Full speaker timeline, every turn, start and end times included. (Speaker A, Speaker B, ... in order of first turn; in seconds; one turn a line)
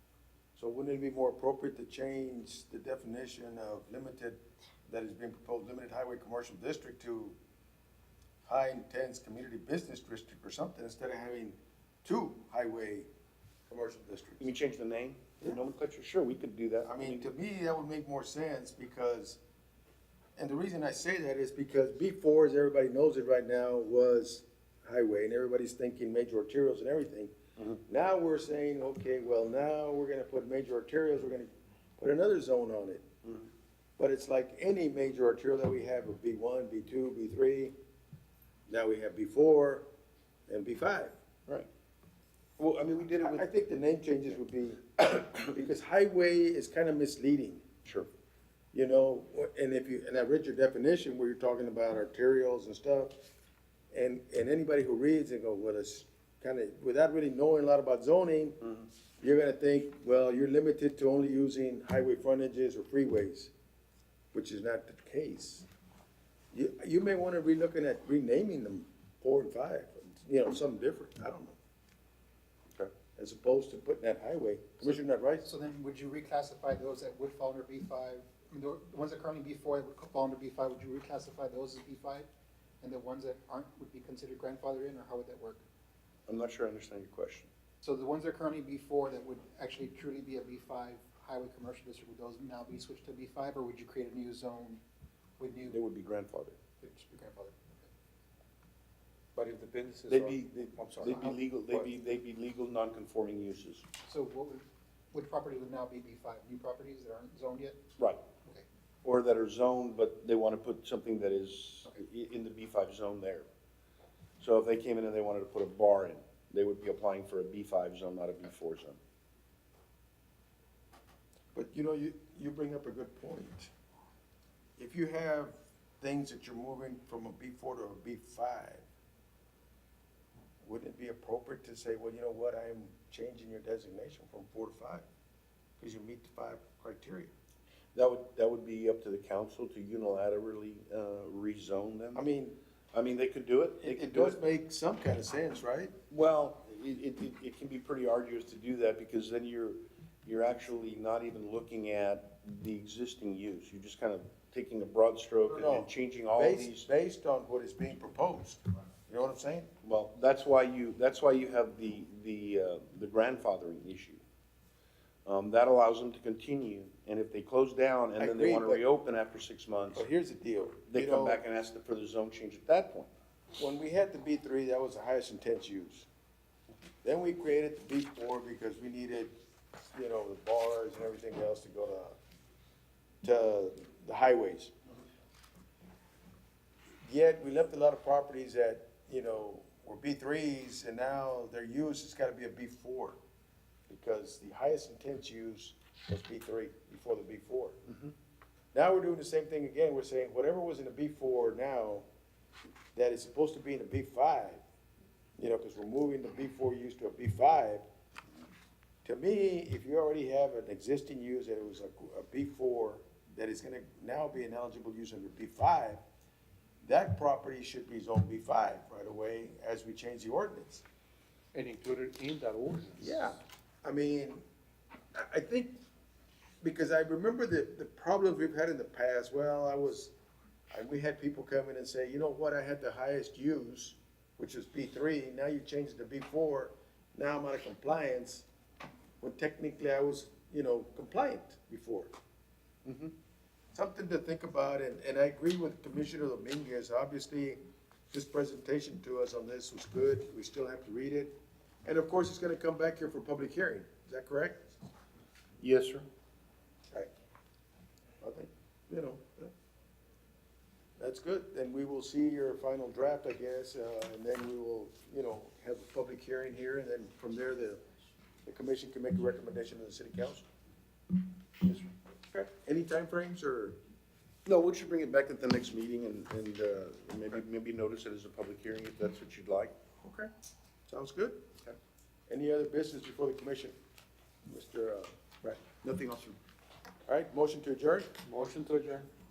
Speaker A: 0.6-7.4
Speaker A: 8.4-13.1
Speaker A: 13.7-14.5
Speaker B: 14.4-17.3
Speaker A: 16.9-19.4
Speaker A: 20.4-27.3
Speaker A: 27.9-33.0
Speaker A: 34.0-37.7
Speaker A: 38.7-39.9
Speaker A: 40.5-41.1
Speaker B: 42.6-43.5
Speaker A: 43.2-47.6
Speaker A: 48.7-53.1
Speaker A: 53.9-58.6
Speaker A: 59.2-63.5
Speaker A: 64.3-65.7
Speaker A: 66.5-71.6
Speaker A: 73.2-75.5
Speaker C: 75.5-82.3
Speaker C: 82.8-85.6
Speaker B: 86.3-87.5
Speaker C: 87.8-94.8
Speaker C: 95.4-95.8
Speaker B: 95.7-96.6
Speaker C: 96.8-97.8
Speaker D: 99.3-101.9
Speaker B: 100.1-103.9
Speaker C: 104.1-107.8
Speaker B: 109.0-113.5
Speaker B: 114.4-119.0
Speaker A: 121.5-123.7
Speaker A: 124.8-128.8
Speaker A: 130.6-135.1
Speaker A: 135.8-137.3
Speaker B: 137.9-142.2
Speaker A: 142.1-142.6
Speaker B: 142.9-144.4
Speaker A: 143.8-145.9
Speaker B: 146.1-156.9
Speaker A: 155.5-159.7
Speaker B: 159.8-164.2
Speaker B: 165.3-170.1
Speaker A: 168.2-168.8
Speaker A: 169.9-171.4
Speaker B: 170.9-173.1
Speaker A: 173.6-176.1
Speaker A: 177.0-179.3
Speaker A: 179.9-182.2
Speaker A: 183.2-184.7
Speaker A: 187.0-193.2
Speaker A: 193.9-197.8
Speaker A: 198.7-202.1
Speaker A: 202.9-204.6
Speaker A: 205.4-207.8
Speaker A: 209.0-216.0
Speaker A: 216.8-220.8
Speaker D: 221.5-223.1
Speaker A: 223.0-224.4
Speaker A: 225.1-225.8
Speaker A: 226.6-230.1
Speaker A: 230.7-238.4
Speaker A: 239.2-242.1
Speaker B: 242.8-243.1
Speaker A: 243.7-247.6
Speaker A: 248.1-251.3
Speaker A: 251.8-254.6
Speaker B: 255.6-256.1
Speaker A: 258.2-259.5
Speaker A: 261.0-267.8
Speaker A: 268.4-270.4
Speaker B: 271.6-271.9
Speaker A: 272.3-273.8
Speaker B: 274.5-279.8
Speaker A: 280.0-280.3
Speaker A: 280.9-281.4
Speaker A: 282.3-283.8
Speaker A: 284.5-285.6
Speaker B: 285.8-286.4
Speaker A: 287.1-288.1
Speaker D: 288.2-289.1